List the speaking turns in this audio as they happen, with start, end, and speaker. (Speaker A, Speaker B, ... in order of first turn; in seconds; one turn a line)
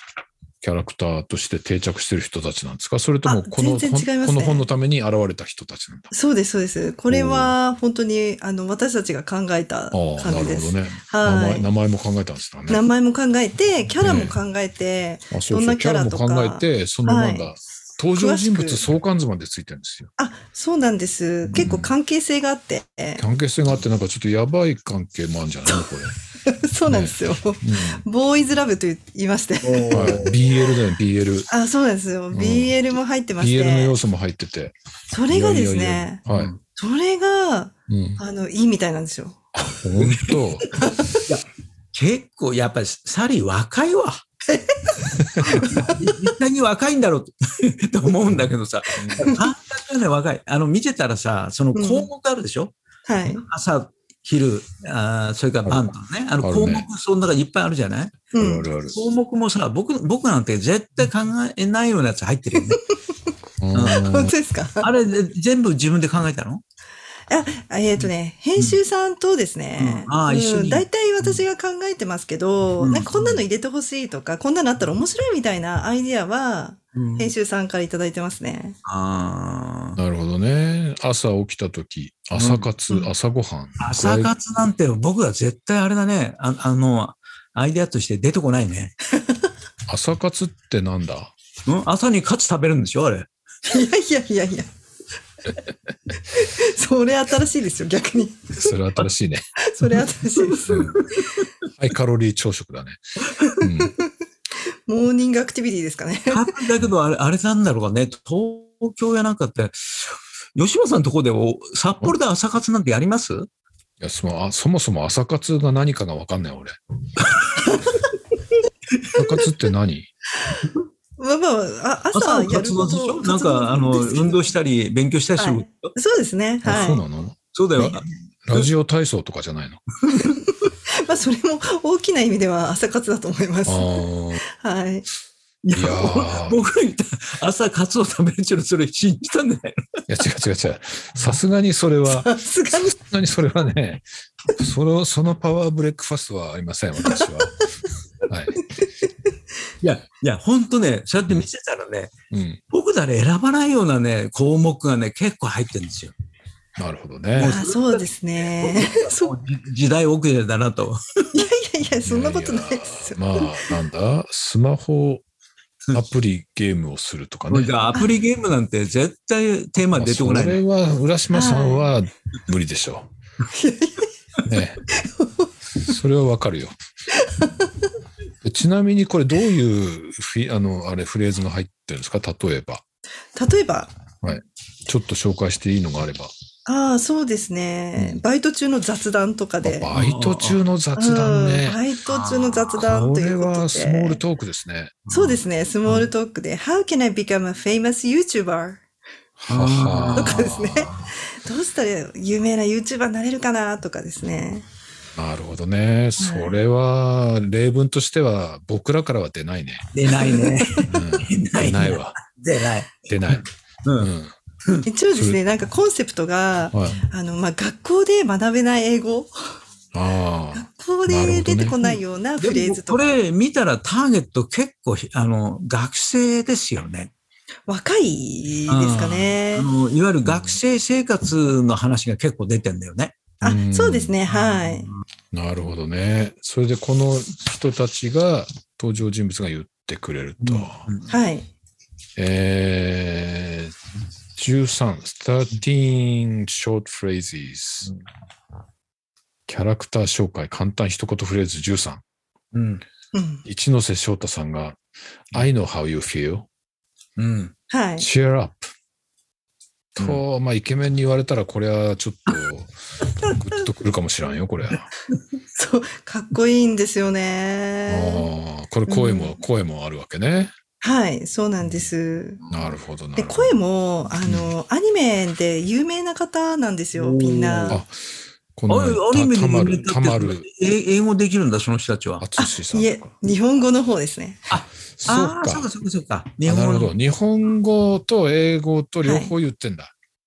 Speaker A: 0.6-6.1
Speaker B: 3.2-4.7
Speaker B: 6.1-11.7
Speaker A: 7.1-7.5
Speaker A: 9.9-12.9
Speaker B: 12.7-17.5
Speaker A: 14.0-14.4
Speaker A: 15.3-20.1
Speaker B: 18.1-18.8
Speaker B: 20.2-23.2
Speaker A: 21.5-21.9
Speaker A: 23.2-26.1
Speaker B: 26.5-30.4
Speaker A: 26.9-28.0
Speaker C: 29.6-30.4
Speaker A: 29.9-31.5
Speaker B: 31.5-34.0
Speaker A: 32.3-32.8
Speaker A: 33.4-34.8
Speaker B: 35.1-36.2
Speaker A: 35.3-36.5
Speaker C: 36.3-36.6
Speaker B: 36.8-39.4
Speaker A: 37.9-38.2
Speaker A: 39.5-40.7
Speaker C: 40.0-40.7
Speaker B: 40.7-41.2
Speaker C: 41.2-44.2
Speaker B: 44.5-46.3
Speaker A: 45.3-45.6
Speaker C: 45.4-52.7
Speaker A: 49.0-49.3
Speaker B: 51.8-52.1
Speaker B: 53.1-53.5
Speaker C: 53.4-58.3
Speaker A: 56.4-56.9
Speaker B: 58.3-58.7
Speaker A: 58.4-59.0
Speaker C: 58.9-62.8
Speaker A: 63.6-64.3
Speaker C: 63.7-64.0
Speaker B: 63.8-64.9
Speaker C: 64.8-66.6
Speaker B: 67.3-78.8
Speaker C: 68.0-68.8
Speaker C: 69.8-71.4
Speaker C: 72.8-73.4
Speaker C: 77.0-77.3
Speaker C: 78.8-80.0
Speaker A: 80.0-84.3
Speaker C: 82.3-82.7
Speaker C: 83.8-88.9
Speaker B: 89.2-89.5
Speaker A: 89.9-91.3
Speaker C: 91.7-93.3
Speaker B: 93.7-94.7
Speaker B: 96.3-98.7
Speaker A: 98.5-99.5
Speaker B: 99.6-100.8
Speaker C: 100.4-101.5
Speaker A: 100.7-101.0
Speaker A: 101.8-103.0
Speaker B: 103.4-104.1
Speaker A: 103.6-104.0
Speaker B: 104.9-106.6
Speaker C: 106.3-113.5
Speaker A: 114.0-116.8
Speaker C: 117.2-117.8
Speaker B: 117.7-118.0
Speaker A: 119.1-120.1
Speaker B: 121.2-124.4
Speaker C: 122.1-125.9
Speaker B: 125.4-127.0
Speaker A: 126.7-127.4
Speaker C: 127.5-128.7
Speaker B: 127.8-128.0
Speaker A: 128.5-129.8
Speaker B: 130.1-135.1
Speaker A: 133.7-134.4
Speaker C: 135.6-139.8
Speaker A: 135.8-136.6
Speaker A: 140.1-144.1
Speaker B: 142.1-143.0
Speaker A: 144.6-147.6
Speaker A: 148.3-148.6
Speaker B: 148.8-149.1
Speaker C: 149.8-152.1
Speaker A: 152.3-152.6
Speaker C: 152.7-156.1
Speaker A: 156.8-157.6
Speaker C: 157.4-161.0
Speaker B: 157.4-159.3
Speaker B: 161.3-163.6
Speaker A: 162.1-165.2
Speaker A: 165.9-167.8
Speaker C: 167.5-170.6
Speaker A: 169.9-173.1
Speaker B: 171.3-171.9
Speaker B: 173.5-174.1
Speaker A: 174.5-174.8
Speaker B: 175.0-175.5
Speaker A: 175.8-176.8
Speaker B: 177.1-177.9
Speaker A: 178.4-182.8
Speaker B: 183.3-183.9
Speaker A: 184.2-186.3
Speaker B: 186.7-189.9
Speaker A: 188.0-188.2
Speaker A: 189.6-191.8
Speaker C: 189.9-190.6
Speaker B: 191.0-194.2
Speaker C: 192.1-192.6
Speaker A: 192.7-195.0
Speaker C: 195.1-195.4
Speaker B: 195.1-198.8
Speaker A: 199.4-200.9
Speaker C: 199.5-201.1
Speaker B: 200.2-204.7
Speaker A: 205.2-209.9
Speaker B: 206.2-206.6
Speaker C: 209.9-214.1
Speaker B: 210.2-211.2
Speaker A: 210.9-212.2
Speaker A: 213.1-213.5
Speaker A: 214.0-214.3
Speaker B: 214.9-219.6
Speaker A: 215.1-215.4
Speaker A: 216.7-217.0
Speaker A: 219.9-221.8
Speaker B: 220.5-223.2
Speaker C: 221.8-227.1
Speaker B: 227.7-229.7
Speaker C: 228.7-233.2
Speaker A: 230.3-230.6
Speaker B: 233.4-234.9
Speaker A: 233.4-234.2
Speaker C: 234.3-235.0
Speaker A: 235.3-240.9
Speaker C: 240.4-241.1
Speaker B: 241.1-241.5
Speaker A: 242.2-243.8
Speaker A: 244.4-247.9
Speaker A: 249.5-252.0
Speaker C: 252.5-252.8
Speaker B: 253.1-253.4
Speaker A: 253.4-254.8
Speaker A: 255.3-256.5
Speaker C: 257.2-257.6
Speaker B: 257.7-258.1
Speaker A: 258.0-258.7
Speaker A: 259.9-262.7
Speaker B: 263.2-263.7
Speaker A: 263.3-264.9
Speaker B: 265.6-268.3
Speaker A: 267.9-270.5
Speaker B: 268.9-269.4
Speaker B: 270.8-272.4
Speaker A: 272.5-273.6
Speaker B: 273.2-277.8
Speaker C: 277.0-277.8
Speaker A: 278.6-280.5
Speaker C: 278.7-282.2
Speaker A: 282.2-283.1
Speaker B: 282.4-284.5
Speaker C: 284.5-286.9
Speaker A: 285.0-285.7
Speaker A: 286.4-289.9
Speaker B: 289.0-289.3